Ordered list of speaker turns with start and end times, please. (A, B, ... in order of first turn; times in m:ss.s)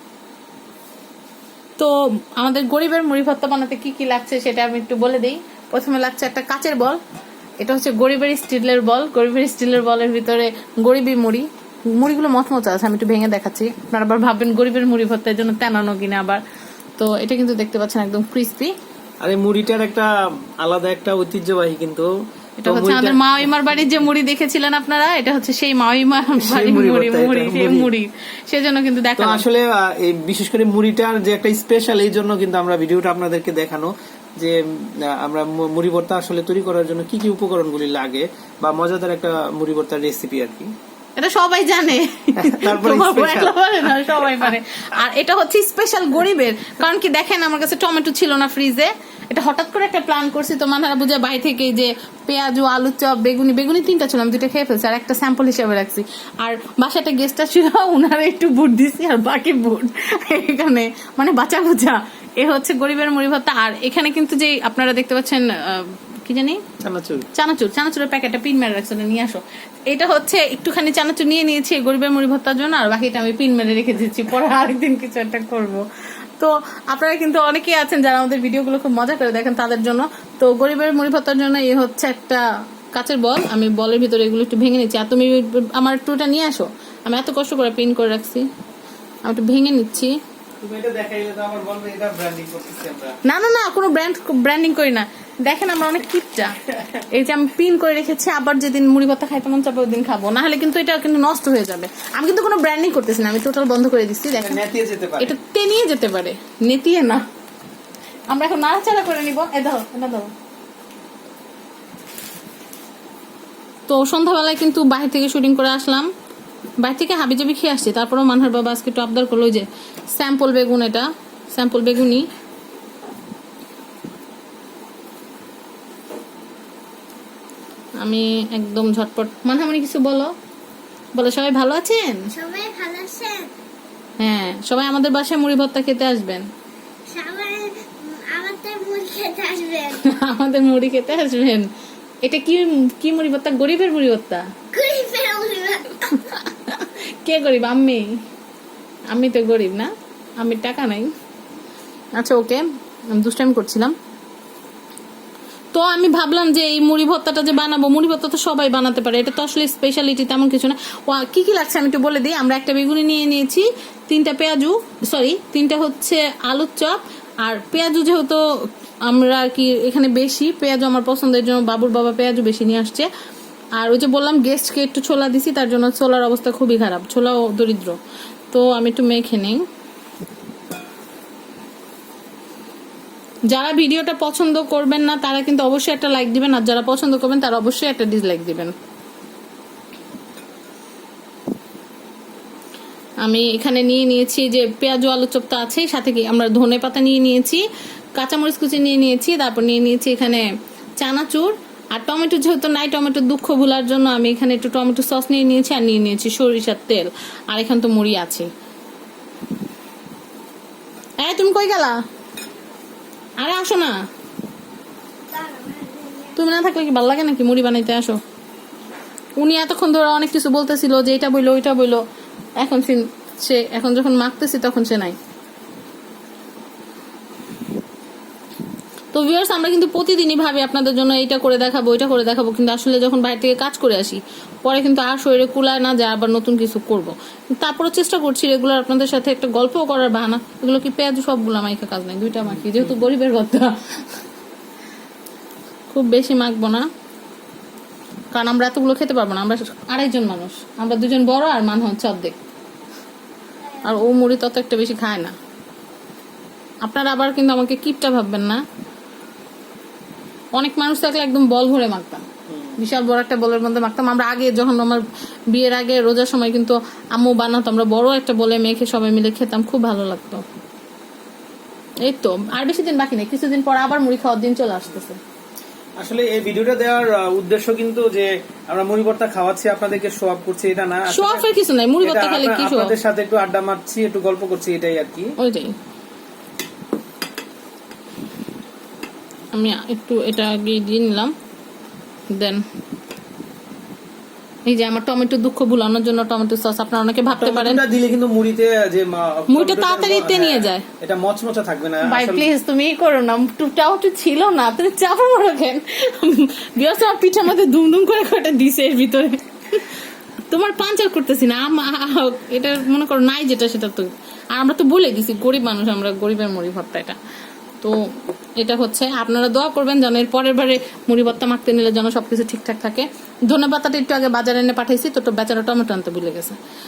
0:01.8-0:07.0 A
0:07.6-0:16.4 A
0:17.0-0:18.7 A
0:19.2-0:22.1 B
0:22.6-0:29.4 A
0:22.6-0:23.3 B
0:26.4-0:27.9 B
0:29.2-0:40.7 B
0:41.2-1:06.6 A
0:42.4-0:44.5 B
1:06.8-1:07.3 B
1:07.3-1:15.8 A
1:16.4-1:28.4 A
1:29.2-1:30.1 A
1:30.6-1:33.2 B
1:33.2-1:36.5 A
1:37.1-1:44.6 A
1:44.4-1:45.4 B
1:45.2-1:47.2 A
1:48.3-1:50.3 A
1:53.9-1:56.1 A
1:56.8-2:02.3 A
2:08.0-2:10.3 A
2:11.2-2:12.3 A
2:12.3-2:13.5 C
2:14.2-2:16.5 A
2:17.1-2:20.0 C
2:20.0-2:21.7 A
2:22.2-2:24.5 A
2:24.7-2:26.3 C
2:26.3-2:28.1 A
2:29.1-2:31.1 A
2:32.2-2:34.0 A
2:35.7-2:48.4 A
2:49.1-2:53.1 A
2:53.8-2:58.0 A
2:58.5-2:59.6 A
3:03.5-3:08.7 A
3:13.2-3:17.6 A
3:18.2-3:20.5 A
3:21.0-3:28.5 A
3:31.2-3:32.0 A
3:33.4-3:34.0 A
3:35.3-3:36.4 C
3:36.4-3:38.2 A
3:39.4-3:42.0 A
3:42.6-3:45.2 A
3:49.1-4:04.0 A
4:02.5-4:03.0 B
4:05.9-4:06.8 A
4:08.3-4:12.4 A
4:13.8-4:15.3 A
4:16.8-4:18.6 A
4:20.6-4:30.4 A
4:22.5-4:22.8 B
4:32.0-4:35.2 A
4:36.0-4:41.5 B
4:41.1-4:42.9 A
4:42.0-4:45.3 B
4:45.4-4:45.7 A
4:49.5-4:51.3 A
4:52.3-4:52.6 A
4:54.7-4:57.8 A
4:57.4-5:02.5 B
4:59.5-5:00.9 A
5:02.1-5:09.9 A
5:10.5-5:17.2 A
5:18.6-5:26.6 A